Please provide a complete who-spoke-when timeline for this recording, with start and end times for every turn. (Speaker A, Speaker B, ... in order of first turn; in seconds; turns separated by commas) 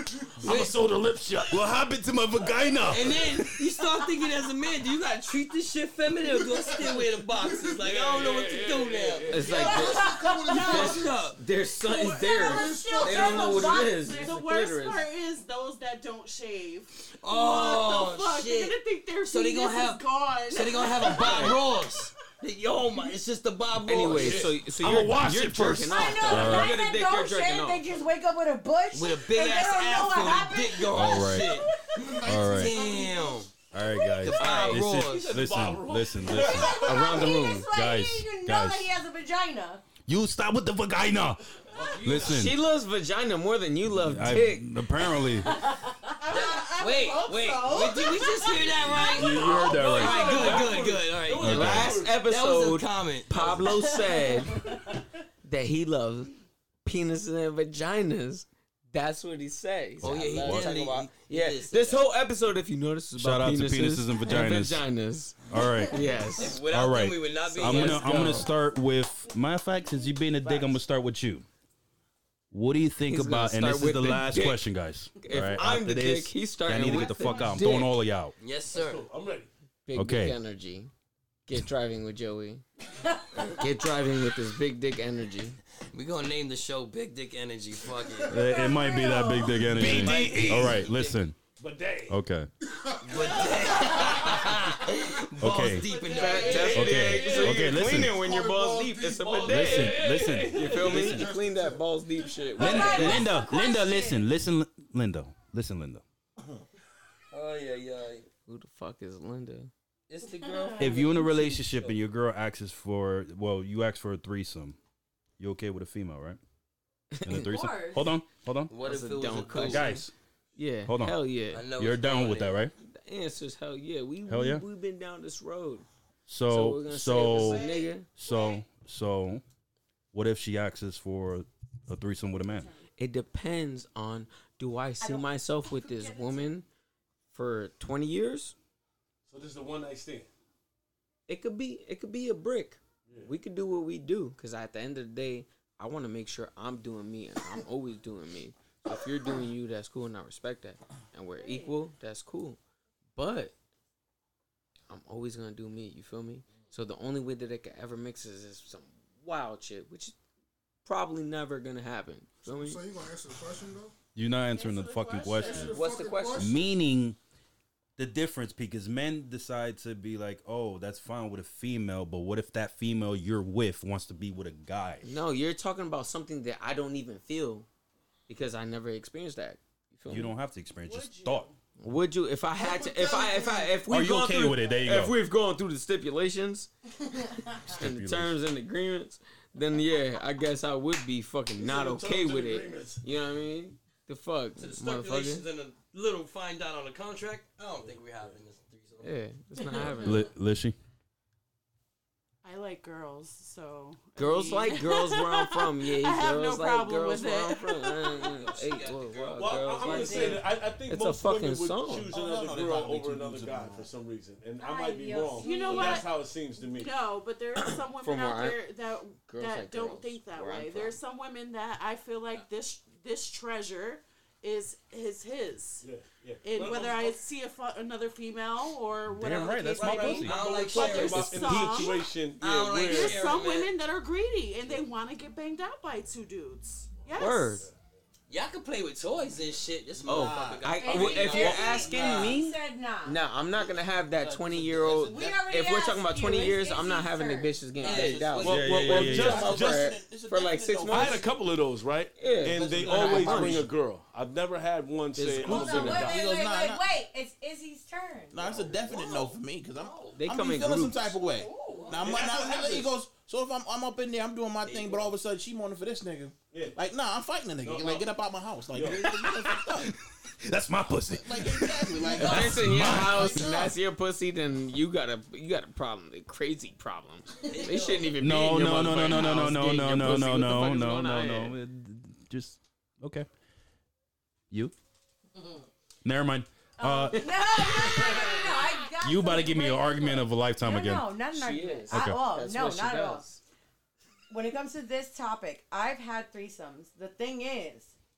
Speaker A: 0.4-1.7, Speaker B: 0.4-0.8, Speaker C: 1.5-3.4, Speaker B: 2.9-9.8, Speaker D: 6.4-7.8, Speaker A: 7.8-9.6, Speaker E: 9.3-15.1, Speaker F: 9.4-10.9, Speaker D: 9.5-11.2, Speaker G: 9.6-10.8, Speaker B: 10.5-11.4, Speaker G: 11.9-14.4, Speaker D: 12.0-13.7, Speaker F: 12.3-21.6, Speaker B: 17.2-24.5, Speaker E: 21.1-21.6, Speaker E: 23.8-27.8, Speaker A: 23.9-26.6, Speaker G: 25.9-31.4, Speaker C: 26.3-26.8, Speaker B: 28.9-33.5, Speaker C: 30.9-31.5, Speaker C: 32.2-32.8, Speaker G: 32.9-33.2, Speaker C: 33.7-38.9, Speaker B: 34.2-35.4, Speaker A: 34.4-37.1, Speaker G: 36.7-39.8, Speaker E: 36.7-37.7, Speaker C: 40.1-41.4, Speaker A: 41.7-42.5, Speaker C: 42.0-42.6, Speaker E: 42.1-44.7, Speaker C: 43.9-45.5, Speaker G: 45.4-46.0, Speaker F: 46.2-48.7, Speaker B: 46.3-53.9, Speaker C: 49.1-50.7, Speaker A: 49.7-52.2, Speaker E: 50.0-50.6, Speaker C: 51.4-52.0, Speaker E: 51.4-54.8, Speaker E: 55.4-66.6, Speaker C: 60.0-60.8, Speaker B: 60.0-62.0, Speaker C: 63.1-64.9, Speaker C: 65.5-66.1, Speaker B: 66.4-68.5, Speaker C: 66.7-71.5, Speaker E: 67.6-68.5, Speaker C: 72.5-78.3, Speaker E: 73.1-74.6, Speaker E: 75.2-78.0, Speaker F: 76.9-77.5, Speaker B: 78.4-79.0, Speaker A: 78.7-79.5, Speaker E: 79.8-80.9, Speaker C: 79.9-80.4, Speaker E: 81.5-82.6, Speaker E: 83.3-85.6, Speaker B: 85.9-88.5, Speaker C: 88.3-91.4, Speaker G: 88.5-89.7, Speaker A: 89.8-90.8, Speaker B: 89.8-91.2, Speaker A: 91.6-92.2, Speaker C: 92.1-92.5, Speaker D: 92.7-94.3, Speaker B: 93.0-97.3, Speaker C: 95.4-95.8, Speaker F: 95.7-97.6, Speaker E: 96.1-103.3, Speaker C: 96.7-98.2, Speaker D: 98.0-99.3, Speaker A: 99.2-101.3, Speaker C: 99.4-100.8, Speaker D: 100.3-102.0, Speaker G: 102.6-104.2, Speaker C: 102.6-106.0, Speaker B: 107.3-108.3, Speaker E: 108.5-109.7, Speaker B: 110.1-112.0, Speaker G: 110.4-110.9, Speaker C: 110.8-114.8, Speaker C: 115.4-116.4, Speaker E: 117.1-117.5, Speaker C: 117.2-118.7, Speaker G: 117.3-118.1, Speaker B: 118.7-120.0, Speaker E: 118.7-121.7, Speaker C: 119.5-120.1, Speaker C: 120.8-121.2, Speaker B: 121.5-122.7, Speaker C: 121.7-122.7, Speaker E: 123.0-125.8, Speaker C: 124.3-124.6, Speaker C: 126.3-129.4, Speaker E: 126.5-128.1, Speaker F: 127.3-128.4, Speaker C: 130.1-132.7, Speaker E: 133.0-136.7, Speaker G: 135.0-136.5, Speaker E: 137.3-138.5, Speaker A: 139.3-140.3, Speaker E: 141.3-152.6, Speaker A: 143.1-143.3, Speaker E: 153.2-153.5, Speaker E: 154.9-160.1, Speaker E: 160.8-162.8, Speaker D: 162.4-163.9, Speaker C: 164.1-165.8, Speaker F: 164.5-165.8, Speaker D: 165.4-166.7, Speaker E: 165.6-166.6, Speaker C: 166.3-167.2, Speaker C: 168.0-175.1, Speaker E: 175.0-177.7, Speaker E: 178.3-180.3, Speaker C: 180.1-181.5, Speaker F: 180.8-181.6, Speaker E: 181.8-186.7, Speaker F: 182.6-183.7, Speaker C: 183.9-185.2, Speaker E: 187.5-195.4, Speaker C: 187.7-188.4, Speaker A: 191.6-193.0, Speaker B: 194.6-199.1, Speaker E: 199.0-200.3, Speaker C: 199.9-200.8, Speaker F: 202.4-208.3, Speaker E: 204.2-212.1, Speaker B: 208.1-210.2, Speaker A: 209.4-216.9, Speaker F: 209.9-210.4, Speaker H: 212.1-213.9, Speaker G: 214.6-216.1, Speaker F: 215.4-225.8, Speaker E: 217.5-218.6, Speaker E: 219.2-221.0, Speaker A: 225.8-227.2, Speaker F: 226.4-232.0, Speaker C: 229.2-230.4, Speaker A: 229.4-233.3, Speaker B: 230.2-231.3, Speaker C: 231.4-231.9, Speaker B: 232.4-233.7, Speaker F: 232.8-237.7, Speaker E: 237.2-237.7, Speaker B: 238.3-242.3, Speaker H: 240.0-242.3, Speaker E: 240.1-251.2, Speaker G: 240.8-243.2, Speaker H: 243.5-245.6, Speaker G: 245.1-247.6, Speaker B: 247.8-248.7, Speaker H: 247.8-251.3, Speaker A: 248.4-249.9, Speaker C: 248.5-249.5, Speaker A: 250.9-256.2, Speaker E: 252.2-253.7, Speaker H: 252.4-253.7, Speaker E: 255.2-256.1, Speaker H: 255.4-256.9, Speaker G: 255.4-258.3, Speaker H: 258.3-269.9, Speaker A: 258.4-259.2, Speaker B: 258.9-260.2, Speaker E: 260.1-261.1, Speaker F: 261.3-262.0, Speaker A: 262.1-262.9, Speaker B: 264.6-265.1, Speaker A: 266.5-266.8, Speaker A: 267.6-268.1, Speaker A: 268.7-269.0, Speaker C: 269.0-273.6, Speaker H: 271.2-273.7, Speaker B: 272.1-272.7, Speaker E: 272.1-281.6, Speaker B: 277.4-278.2, Speaker C: 278.2-283.3, Speaker C: 286.0-287.2, Speaker G: 286.8-293.2, Speaker E: 287.1-288.0, Speaker C: 289.0-291.1, Speaker E: 291.3-293.4, Speaker C: 291.9-292.2, Speaker G: 294.3-297.9